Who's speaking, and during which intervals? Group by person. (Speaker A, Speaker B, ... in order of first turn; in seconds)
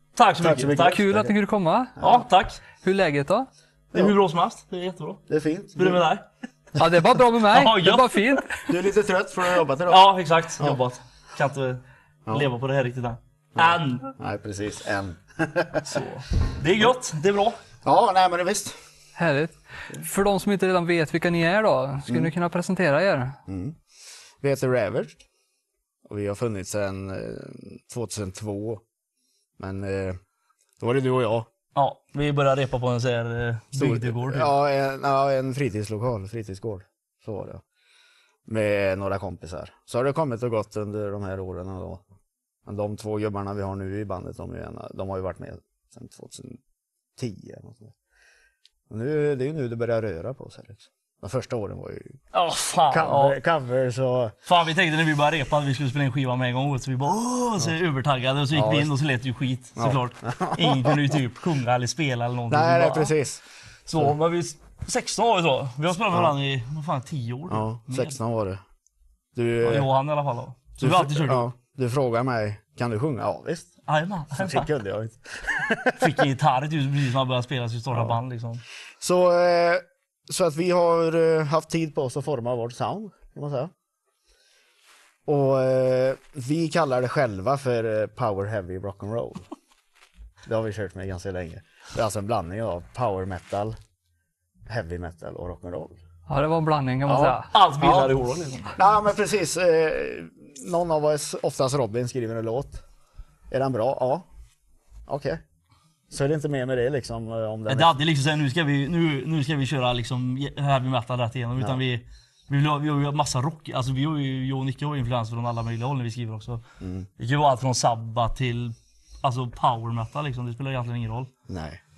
Speaker A: 0.1-1.1, 2.0-2.6, 3.9-5.2, 5.8-6.2, 7.4-8.4, 9.9-14.1, 15.8-17.6, 31.7-34.5, 52.3-53.4, 54.5-63.1, 63.9-68.2, 69.6-71.5, 73.9-74.7, 76.0-78.6, 97.5-98.8, 107.7-116.6, 117.2-121.3
Speaker B: 0.3-1.3, 2.0-2.2, 5.3-6.0, 8.7-10.0, 13.6-16.0, 17.8-18.8, 22.1-22.3, 23.5-23.8, 24.4-25.2, 26.1-28.8, 29.6-30.2, 30.8-31.5, 33.7-37.6, 38.5-42.0, 42.6-46.6, 47.2-47.9, 48.9-52.2, 52.9-54.3, 58.5-58.9, 59.8-60.9, 62.5-63.4, 67.5-68.6, 69.3-69.9, 70.8-73.7, 74.3-76.3, 79.0-83.7, 85.2-89.4, 90.5-93.8, 94.7-96.0, 97.1-98.1, 98.8-102.8, 103.5-104.2, 105.1-105.4, 106.1-108.0, 116.8-117.1, 121.5-121.8
Speaker C: 0.8-2.0, 2.8-3.5, 6.8-8.7, 19.1-23.4, 96.3-97.5